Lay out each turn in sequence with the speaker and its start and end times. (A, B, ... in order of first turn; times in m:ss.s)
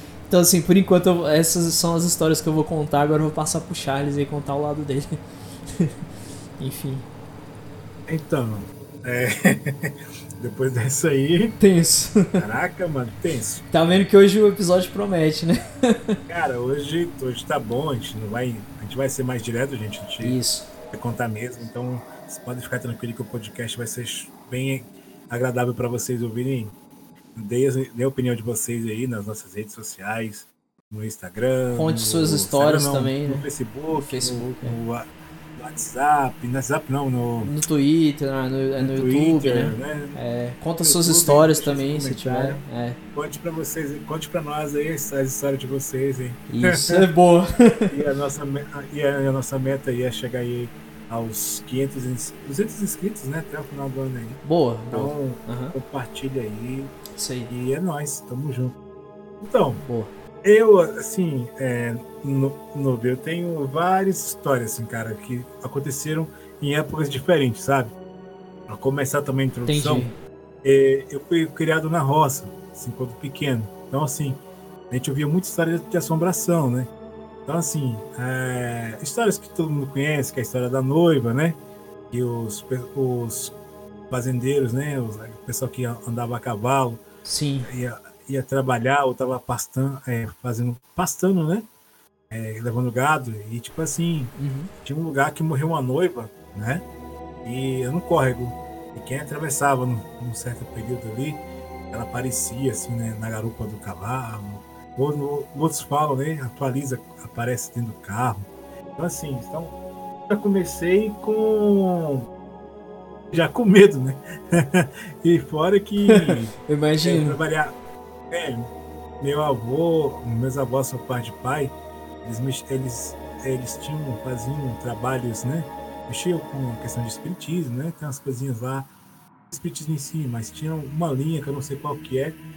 0:00.3-0:05.9 A
0:06.6-0:07.1 A
0:08.1-0:11.6 B
0:11.6-0:12.4 A
0:12.4-0:13.6 B
0:13.7-0:16.2 A
0:16.3-0:20.4 B
0:20.2-0:20.7 A
0:20.9-0:26.8 B
0:27.4-0:37.5 B
0:31.8-0:34.8 A
0:37.4-0:43.0 A
0:38.8-0:40.2 B
0:40.8-0:42.6 B
0:43.1-0:47.1 B
0:46.5-0:48.0 A
0:47.9-0:54.4 B
0:54.4-0:55.8 A
0:54.9-0:57.0 B
0:57.1-0:57.5 A
0:57.5-0:58.8 B
0:59.4-0:59.8 B
0:59.8-1:00.1 A
1:00.4-1:08.0 B
1:08.7-1:10.1 B
1:09.7-1:10.2 A
1:10.6-1:16.9 B
1:17.5-1:21.6 B
1:22.1-1:23.6 B
1:24.1-1:27.0 B
1:27.2-1:27.7 A
1:27.6-1:31.7 B
1:32.3-1:36.8 B
1:34.4-1:34.7 A
1:37.4-1:49.8 B
1:50.3-1:52.3 B
1:53.3-1:56.5 B
1:56.0-1:57.4 A
1:57.0-1:57.8 B
1:58.3-2:08.9 B
2:09.5-2:12.4 B